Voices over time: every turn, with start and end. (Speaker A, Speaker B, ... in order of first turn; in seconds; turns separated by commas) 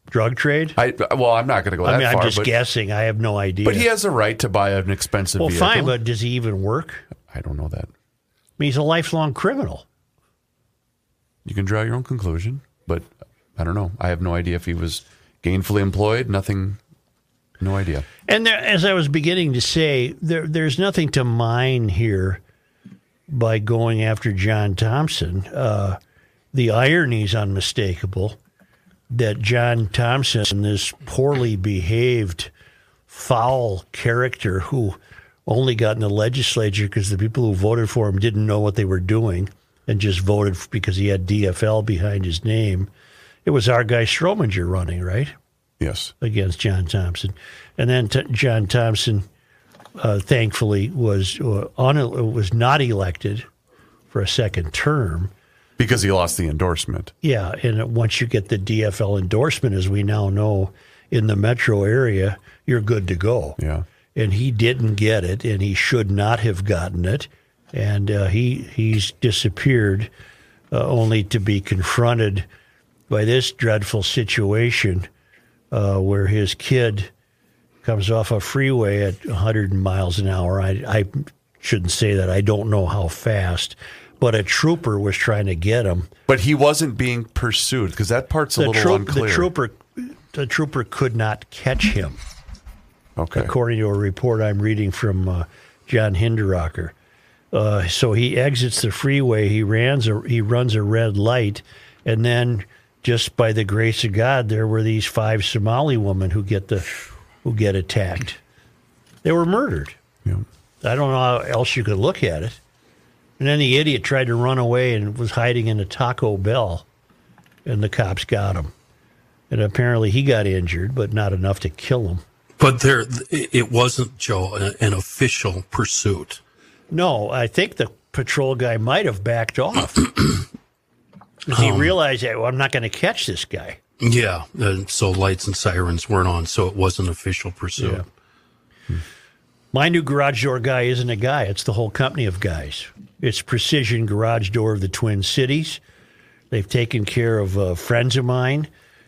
Speaker A: 0.1-0.8, Speaker B: 0.8-2.5, Speaker A: 1.8-3.9, Speaker B: 3.6-6.0, Speaker A: 5.4-7.0, Speaker B: 7.2-7.9, Speaker A: 8.6-9.8, Speaker B: 11.4-16.8, Speaker B: 17.6-18.1, Speaker A: 18.3-22.4, Speaker A: 23.3-26.0, Speaker A: 26.5-28.4, Speaker A: 29.1-32.5, Speaker A: 33.1-42.9, Speaker A: 43.4-45.3, Speaker B: 45.8-46.1, Speaker A: 46.2-49.2, Speaker A: 50.0-53.5, Speaker A: 54.1-55.3, Speaker B: 55.8-57.1, Speaker A: 57.2-63.6, Speaker B: 63.6-63.8, Speaker A: 64.1-70.1, Speaker A: 70.7-72.5, Speaker A: 73.1-75.1, Speaker A: 75.7-77.1, Speaker A: 77.8-86.1, Speaker B: 86.3-89.5, Speaker A: 88.6-92.2, Speaker B: 93.2-93.5, Speaker A: 93.3-96.9, Speaker A: 97.5-106.9, Speaker A: 107.4-108.4, Speaker A: 109.2-110.0, Speaker A: 110.8-112.6, Speaker A: 113.4-116.8, Speaker A: 117.7-118.7, Speaker A: 119.5-122.2, Speaker C: 122.6-126.4, Speaker A: 126.9-130.1, Speaker A: 131.5-133.8, Speaker C: 131.5-132.0, Speaker C: 134.0-138.0, Speaker A: 137.8-138.0, Speaker A: 139.7-145.8, Speaker A: 146.5-148.7